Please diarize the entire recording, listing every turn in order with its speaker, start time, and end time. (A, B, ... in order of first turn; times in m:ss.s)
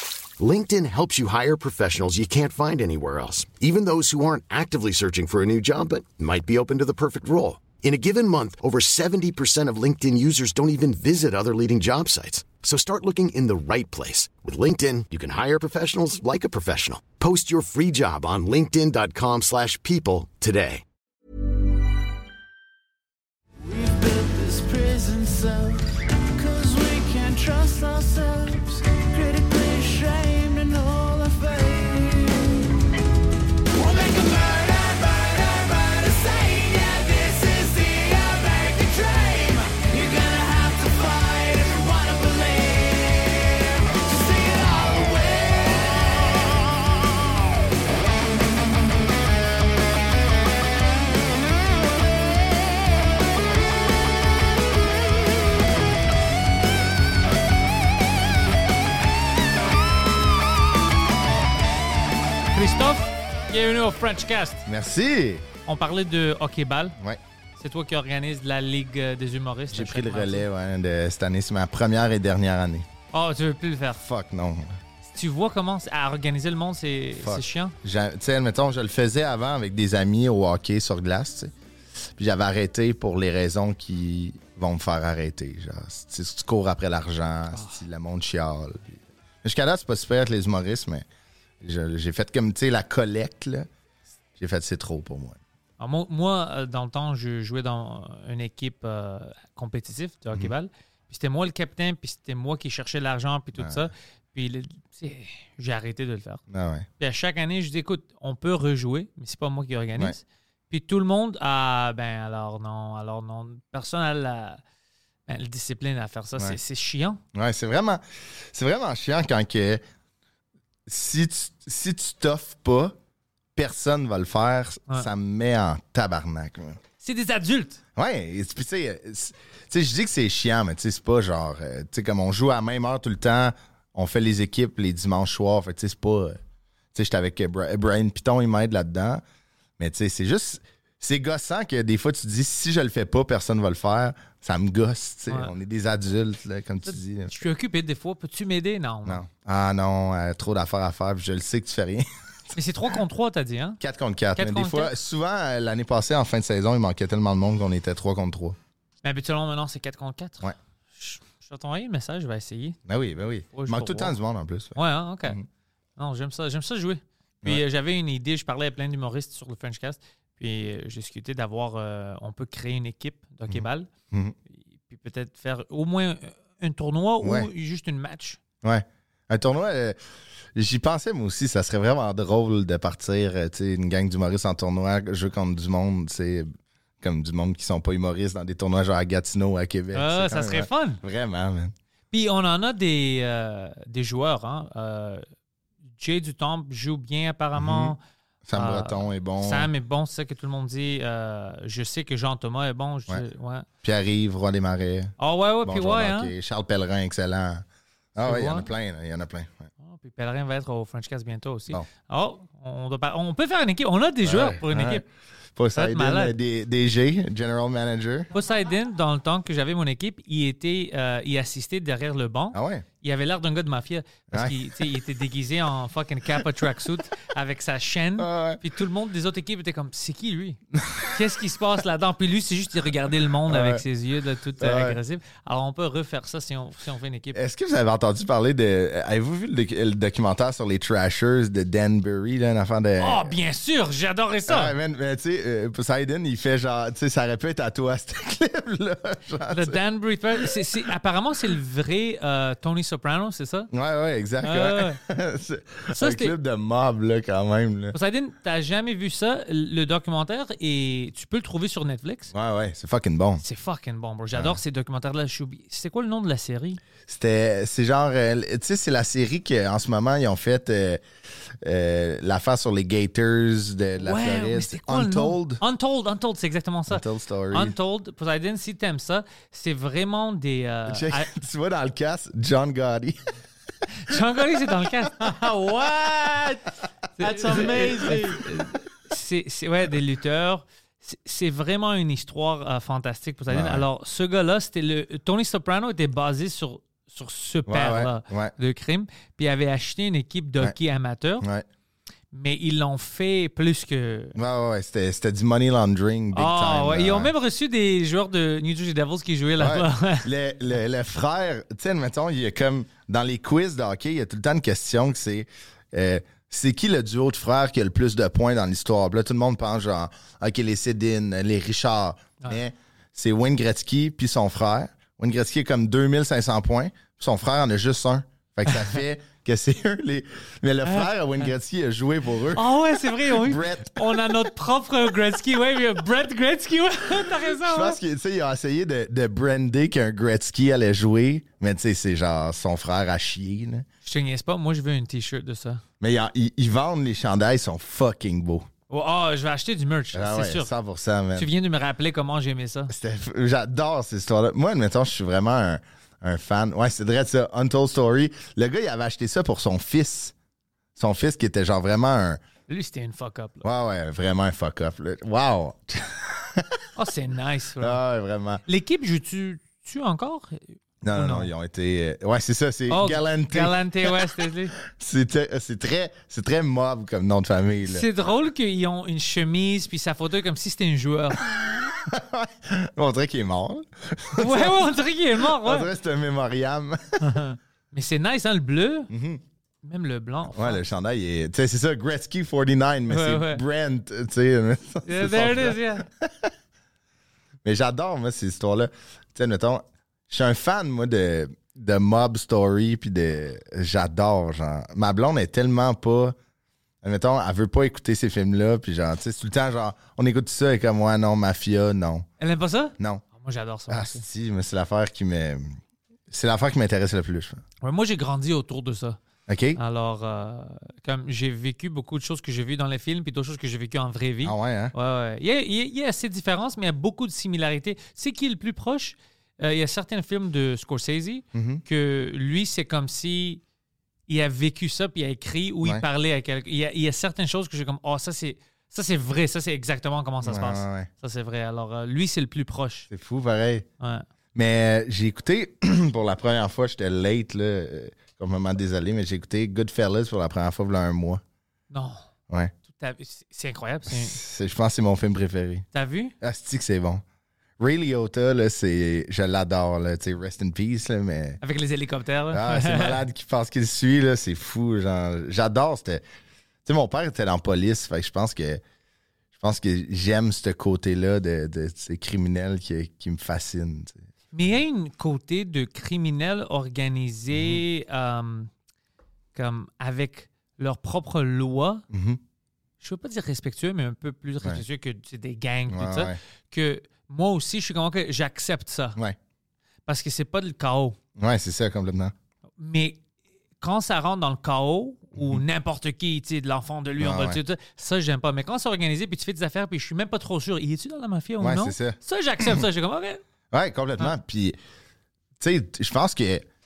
0:00.4-0:20.8 A
0:23.6-0:32.6 B
0:33.7-0:46.7 B
1:02.5-1:04.7 C
1:04.7-1:05.5 D
1:05.7-1:07.0 C
1:07.6-1:10.5 C
1:09.7-1:12.9 D
1:13.1-1:14.0 C
1:14.0-1:14.8 D
1:15.1-1:17.8 C
1:17.2-1:21.5 D
1:22.2-1:31.1 D
1:27.5-1:27.8 C
1:31.6-1:33.7 D
1:34.4-1:35.4 D
1:35.8-1:46.4 C
1:43.6-1:43.9 D
1:46.5-1:46.9 D
1:47.0-1:54.6 C
1:55.3-1:57.2 C
1:57.3-1:59.8 D
2:00.9-2:03.0 D
2:03.6-2:06.8 D
2:07.0-2:07.8 C
2:08.0-2:16.4 D
2:16.9-2:19.2 D
2:19.8-2:27.4 D
2:25.3-2:25.5 C
2:26.9-2:29.2 C
2:29.1-2:32.1 D
2:32.5-2:33.8 C
2:33.8-2:38.6 D
2:34.4-2:34.9 C
2:39.0-2:42.8 C
2:42.9-2:45.4 D
2:43.5-2:44.2 C
2:44.8-2:45.4 C
2:46.0-2:53.9 C
2:53.5-2:54.4 D
2:54.5-2:58.4 C
2:57.2-2:57.5 D
2:58.6-3:00.0 D
3:00.6-3:11.7 D
3:09.9-3:11.0 C
3:12.1-3:15.2 C
3:16.0-3:18.0 C
3:17.6-3:19.7 D
3:18.5-3:23.7 C
3:23.8-3:29.7 D
3:25.2-3:26.3 C
3:28.2-3:28.7 C
3:29.8-3:35.0 C
3:34.2-3:38.3 D
3:35.8-3:36.4 C
3:38.3-3:57.4 C
3:42.5-3:42.9 D
3:44.3-3:44.9 D
3:48.2-3:48.6 D
3:50.7-3:51.2 D
3:53.5-3:53.8 D
3:54.6-3:55.0 D
3:57.3-4:03.3 D
4:03.0-4:04.7 C
4:04.5-4:09.8 D
4:09.5-4:13.7 C
4:13.7-4:18.0 D
4:14.4-4:15.0 C
4:15.9-4:16.3 C
4:17.9-4:22.3 C
4:22.3-4:23.4 D
4:23.4-4:26.8 C
4:27.1-4:31.0 D
4:31.6-4:35.6 D
4:34.0-4:41.3 C
4:36.9-4:37.8 D
4:40.9-4:43.2 D
4:43.9-5:01.4 C
4:47.2-4:48.4 D
4:53.5-4:53.8 D
4:57.7-4:58.5 D
5:01.4-5:01.7 D
5:02.3-5:04.4 C
5:04.4-5:07.3 D
5:06.3-5:10.3 C
5:09.6-5:34.4 D
5:32.5-5:38.0 C
5:37.6-5:43.9 D
5:44.0-5:45.8 C
5:46.0-5:48.7 D
5:48.9-5:50.7 C
5:50.1-5:51.5 D
5:51.4-5:52.9 C
5:52.9-6:00.4 D
6:01.0-6:02.4 D
6:02.7-6:03.7 C
6:03.6-6:06.8 D
6:07.0-6:08.0 C
6:07.8-6:08.6 D
6:08.7-6:11.5 C
6:11.0-6:18.1 D
6:12.9-6:14.8 C
6:17.8-6:21.6 C
6:21.4-6:27.4 D
6:24.4-6:25.9 C
6:27.2-6:29.1 C
6:29.1-6:29.4 D
6:29.8-6:30.8 C
6:30.5-6:36.5 D
6:33.1-6:33.6 C
6:35.1-6:36.1 C
6:37.6-6:46.4 D
6:47.0-6:52.3 D
6:52.4-6:54.2 C
6:53.9-6:55.8 D
6:56.3-6:57.6 D
6:57.8-6:59.2 C
6:59.5-6:59.8 D
6:59.8-7:13.6 C
7:04.4-7:04.9 D
7:11.5-7:11.8 D
7:14.3-7:23.1 C
7:20.4-7:21.1 D
7:23.1-7:23.9 D
7:24.0-7:24.3 C
7:24.5-7:31.4 D
7:31.9-7:32.2 C
7:32.9-7:34.4 C
7:34.1-7:35.9 D
7:35.9-7:36.4 C
7:36.4-7:37.2 D
7:37.8-7:41.6 D
7:41.6-7:43.2 C
7:42.5-7:46.2 D
7:46.8-7:48.8 D
7:49.6-7:54.2 D
7:54.5-7:58.7 C
7:57.5-7:57.8 D
7:59.5-8:02.0 C
8:02.1-8:02.4 D
8:03.0-8:09.2 C
8:05.9-8:06.4 D
8:10.1-8:11.2 C
8:11.4-8:12.3 D
8:12.8-8:13.2 C
8:13.8-8:23.4 C
8:15.4-8:15.6 D
8:17.2-8:17.6 D
8:21.6-8:22.8 D
8:23.7-8:24.8 D
8:25.6-8:26.7 D